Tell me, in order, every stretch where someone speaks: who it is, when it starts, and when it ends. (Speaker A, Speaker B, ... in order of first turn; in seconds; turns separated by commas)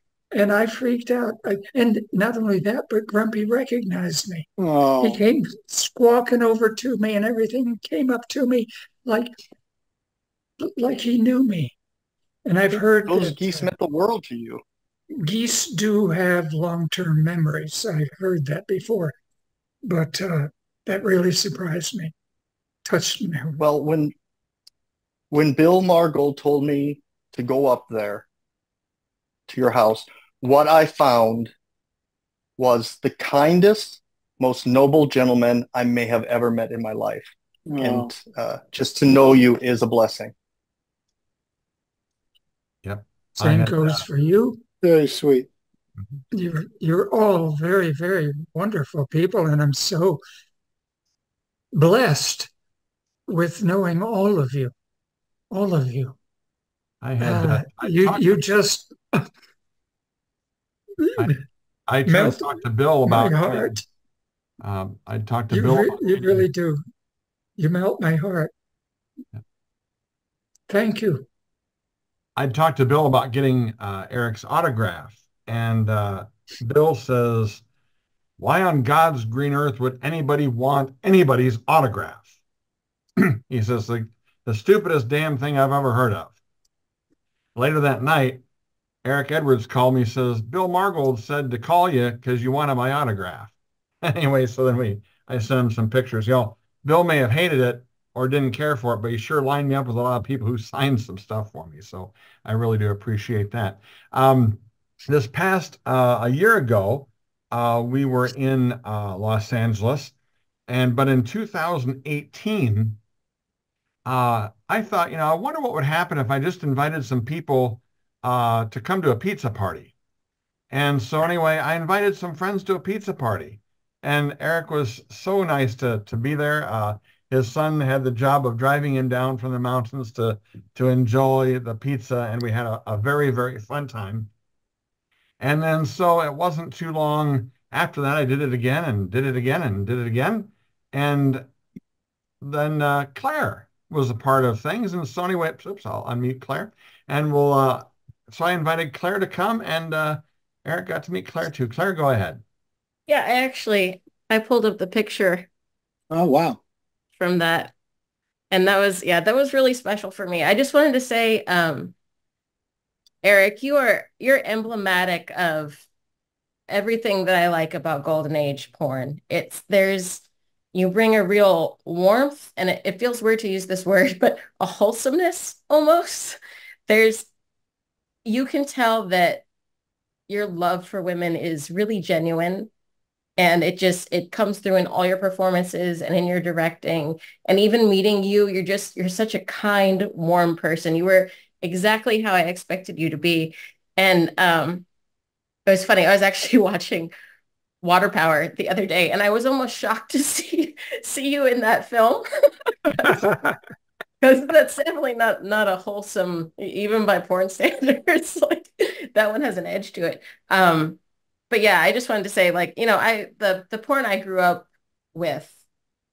Speaker A: 0.3-4.5, Speaker B: 4.6-5.2, Speaker A: 5.0-9.3, Speaker A: 10.7-11.8, Speaker A: 12.5-13.5, Speaker C: 13.1-14.6, Speaker A: 15.2-19.1, Speaker A: 19.9-22.1, Speaker A: 22.9-23.6, Speaker C: 23.6-24.1, Speaker C: 25.3-28.3, Speaker C: 29.5-31.5, Speaker C: 32.6-40.3, Speaker B: 37.7-38.1, Speaker D: 42.8-44.0, Speaker A: 43.4-44.6, Speaker B: 44.8-45.5, Speaker A: 46.3-50.2, Speaker A: 51.7-52.5, Speaker A: 53.3-54.7, Speaker A: 55.5-56.1, Speaker D: 57.0-58.4, Speaker A: 57.2-59.2, Speaker A: 61.0-61.3, Speaker D: 61.9-63.8, Speaker A: 62.1-62.4, Speaker A: 63.1-63.8, Speaker D: 64.6-66.5, Speaker A: 65.5-66.8, Speaker A: 67.6-68.5, Speaker A: 70.7-71.3, Speaker D: 72.4-77.6, Speaker D: 78.4-82.3, Speaker D: 83.5-86.4, Speaker D: 87.5-88.4, Speaker D: 89.0-110.1, Speaker D: 110.7-113.0, Speaker D: 114.0-119.9, Speaker D: 120.7-134.3, Speaker D: 135.4-141.4, Speaker D: 142.4-152.4, Speaker E: 153.1-155.5, Speaker B: 156.1-156.6, Speaker E: 157.2-157.7, Speaker E: 158.5-161.9, Speaker E: 163.2-165.8, Speaker E: 166.7-177.3, Speaker E: 178.3-179.4, Speaker E: 180.3-182.7, Speaker E: 183.4-194.8, Speaker E: 195.7-197.1, Speaker E: 197.8-202.3, Speaker E: 204.2-211.0, Speaker E: 211.5-215.6